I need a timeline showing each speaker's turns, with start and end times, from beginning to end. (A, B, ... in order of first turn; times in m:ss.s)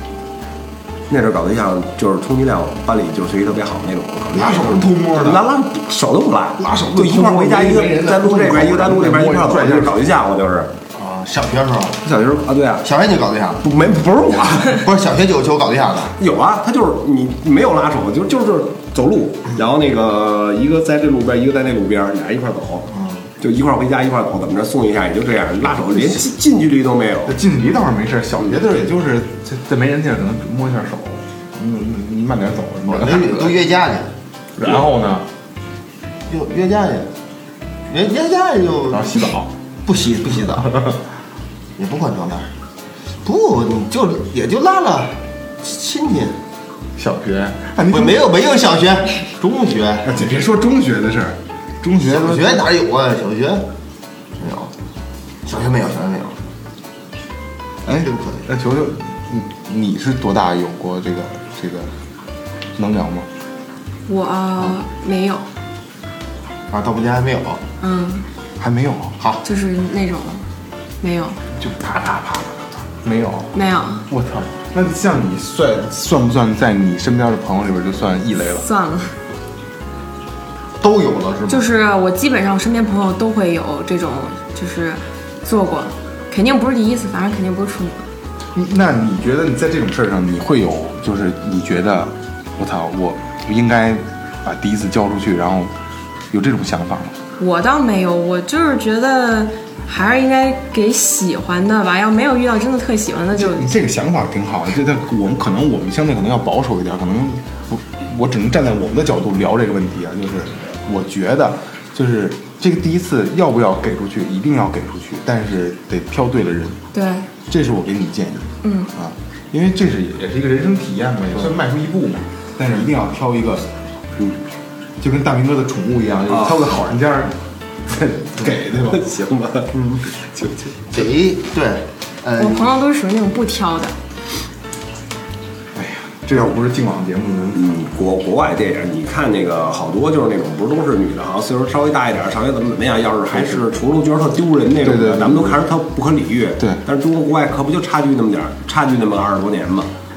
0:01.1-0:10.7 A
0:04.3-0:05.5 B
0:06.6-0:10.0 B
0:10.9-0:12.0 C
0:12.0-0:12.9 A
0:12.8-0:13.6 C
0:13.6-0:14.9 A
0:14.7-0:16.2 C
0:16.2-0:22.9 A
0:22.9-0:23.3 C
0:23.4-0:27.4 A
0:27.3-0:33.6 B
0:32.9-0:34.1 C
0:34.6-0:35.3 B
0:36.3-0:37.1 C
0:37.9-0:39.2 C
0:38.9-0:39.5 B
0:39.9-0:40.8 C
0:40.7-0:40.9 B
0:41.8-0:42.5 C
0:43.2-0:46.4 C
0:47.0-0:48.3 B
0:47.9-0:50.2 C
0:50.0-0:52.7 B
0:52.0-0:53.7 C
0:54.4-0:54.7 C
0:55.4-0:56.4 C
0:57.8-1:01.9 B
0:57.9-0:58.5 C
1:02.8-1:03.3 B
1:04.1-1:05.5 D
1:06.7-1:07.6 C
1:07.8-1:08.3 D
1:08.6-1:09.2 B
1:09.4-1:10.4 D
1:11.0-1:11.4 D
1:11.5-1:13.5 B
1:13.5-1:14.1 D
1:14.1-1:18.6 B
1:18.6-1:19.2 D
1:20.8-1:21.7 C
1:21.5-1:28.0 D
1:28.5-1:35.7 B
1:36.3-1:37.2 B
1:37.4-1:43.7 D
1:43.3-1:56.8 B
1:56.9-1:57.3 D
1:57.5-2:03.7 B
1:58.6-1:58.9 D
2:05.0-2:09.1 B
2:06.3-2:06.8 A
2:08.7-2:09.7 A
2:09.7-2:10.0 C
2:10.9-2:12.7 C
2:12.4-2:14.0 D
2:15.8-2:17.7 B
2:17.5-2:29.9 A
2:24.8-2:25.6 B